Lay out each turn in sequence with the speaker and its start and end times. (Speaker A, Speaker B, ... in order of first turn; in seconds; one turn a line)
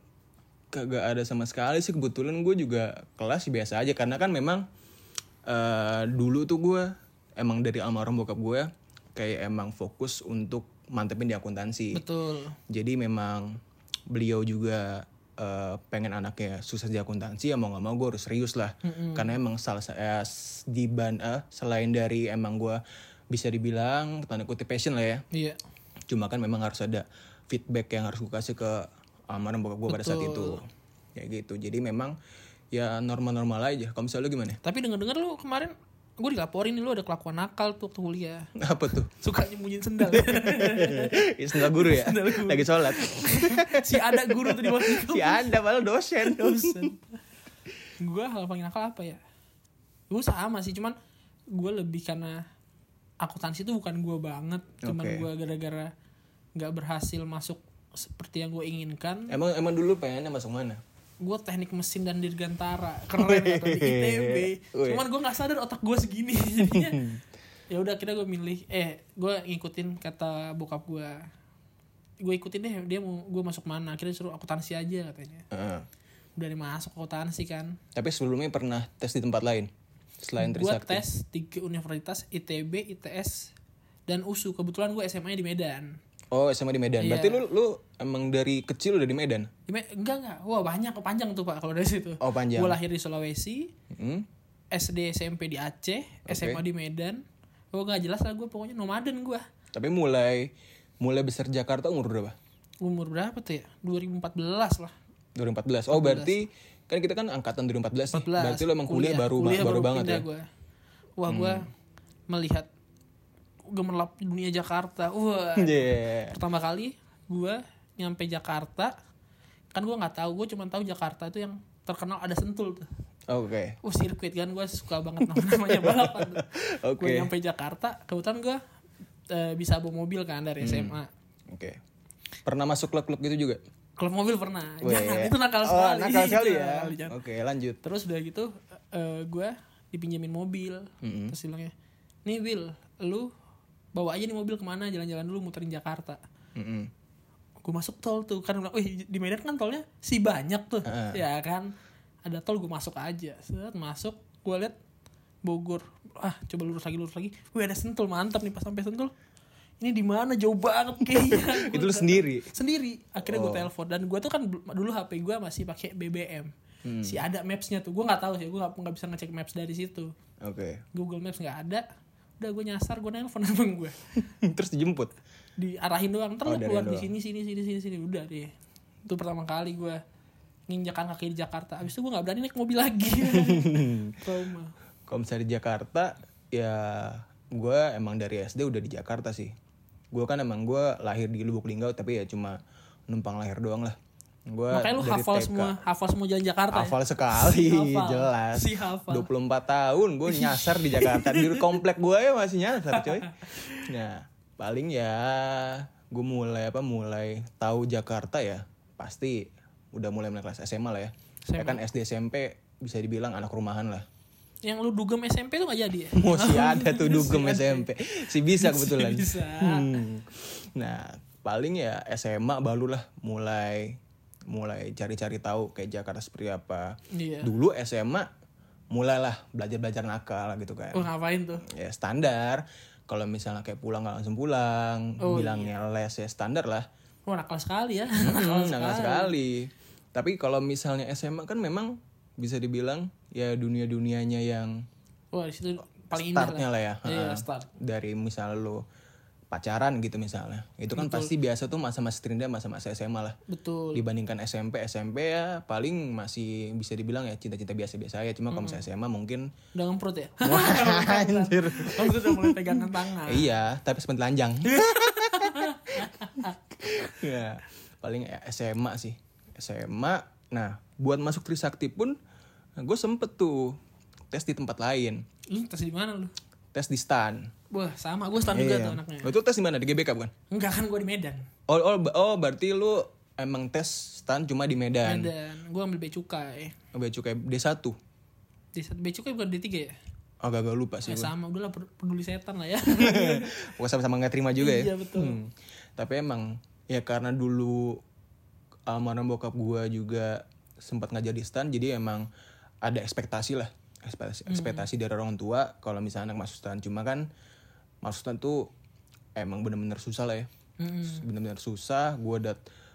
Speaker A: 0.7-4.6
Speaker A: 5.5-12.0
Speaker B: 11.9-12.6
Speaker A: 12.7-13.6
Speaker A: 14.1-22.8
Speaker B: 18.8-19.3
Speaker A: 23.3-25.2
Speaker B: 25.3-25.6
Speaker A: 26.1-32.1
Speaker B: 29.9-30.6
Speaker A: 32.7-34.6
Speaker B: 34.6-38.5
Speaker A: 38.6-39.1
Speaker B: 39.1-45.6
Speaker A: 40.0-46.9
Speaker B: 46.2-47.1
Speaker B: 48.0-49.2
Speaker B: 50.1-51.0
Speaker B: 51.5-52.4
Speaker B: 53.2-55.9
Speaker A: 54.8-55.3
Speaker B: 56.5-59.3
Speaker A: 59.3-60.8
Speaker B: 61.2-67.0
Speaker A: 63.1-65.0
Speaker A: 66.6-67.2
Speaker B: 67.7-71.2
Speaker B: 72.2-75.4
Speaker A: 75.5-75.8
Speaker B: 76.4-77.8
Speaker A: 77.9-79.7
Speaker A: 80.2-81.0
Speaker B: 80.4-83.5
Speaker B: 84.1-86.0
Speaker A: 86.3-89.5
Speaker B: 87.0-87.4
Speaker B: 89.7-93.7
Speaker A: 92.2-92.8
Speaker A: 93.9-94.2
Speaker B: 94.7-99.4
Speaker A: 96.3-96.6
Speaker A: 99.7-102.3
Speaker B: 102.8-104.9
Speaker A: 105.3-110.2
Speaker B: 105.9-106.4
Speaker B: 108.1-110.4
Speaker B: 111.2-111.7
Speaker A: 111.3-111.7
Speaker B: 112.3-112.7
Speaker B: 113.7-118.9
Speaker A: 115.6-116.3
Speaker B: 119.7-122.9
Speaker A: 123.3-123.8
Speaker B: 123.8-126.5
Speaker A: 125.2-127.3
Speaker B: 127.0-128.6
Speaker B: 129.3-131.1
Speaker A: 130.6-131.0
Speaker A: 131.5-131.8
Speaker A: 132.4-133.6
Speaker B: 134.0-137.1
Speaker A: 134.8-137.8
Speaker B: 137.8-141.7
Speaker A: 141.0-141.3
Speaker B: 142.2-143.3
Speaker B: 143.9-146.2
Speaker A: 146.5-146.9
Speaker B: 147.6-151.7
Speaker A: 150.8-151.2
Speaker B: 152.2-154.8
Speaker B: 155.4-159.1
Speaker B: 159.8-166.5
Speaker A: 161.1-162.5
Speaker A: 163.2-163.7
Speaker A: 166.8-167.2
Speaker B: 167.0-170.1
Speaker A: 170.4-170.8
Speaker B: 170.9-171.8
Speaker B: 172.4-173.9
Speaker A: 174.2-175.1
Speaker B: 175.6-178.5
Speaker A: 176.4-177.1
Speaker B: 179.1-180.0
Speaker B: 180.7-184.7
Speaker A: 183.2-184.2
Speaker A: 185.1-189.5
Speaker A: 190.1-192.6
Speaker A: 193.1-193.9
Speaker A: 194.5-195.7
Speaker B: 194.7-199.3
Speaker A: 196.7-214.1
Speaker B: 200.3-201.7
Speaker B: 202.9-203.9
Speaker B: 211.4-211.8
Speaker B: 214.6-217.9
Speaker A: 216.1-228.3
Speaker B: 218.4-220.0
Speaker B: 227.1-227.5
Speaker A: 228.9-231.1
Speaker B: 230.9-231.6
Speaker A: 231.7-236.9
Speaker B: 235.2-235.7
Speaker B: 237.2-239.3
Speaker A: 238.2-244.8
Speaker B: 245.3-247.7
Speaker A: 246.1-248.8
Speaker A: 249.5-253.4
Speaker B: 250.9-251.3
Speaker B: 253.5-254.1
Speaker A: 253.9-259.5
Speaker B: 258.5-258.8
Speaker B: 259.7-263.5
Speaker A: 260.4-272.2
Speaker B: 264.6-266.6
Speaker A: 272.8-273.8
Speaker A: 274.3-275.2
Speaker B: 275.5-276.3
Speaker A: 276.7-277.5
Speaker B: 277.7-279.3
Speaker A: 278.5-280.3
Speaker B: 280.5-281.4
Speaker A: 281.7-285.3
Speaker B: 285.0-286.7
Speaker A: 286.9-287.9
Speaker B: 288.7-289.9
Speaker A: 290.4-291.3
Speaker B: 291.0-293.6
Speaker A: 292.9-298.0
Speaker B: 294.6-295.4
Speaker A: 298.9-302.2
Speaker A: 302.8-307.3
Speaker B: 304.5-304.9
Speaker A: 308.0-308.7
Speaker A: 309.4-310.5
Speaker B: 310.8-311.2
Speaker A: 311.0-312.6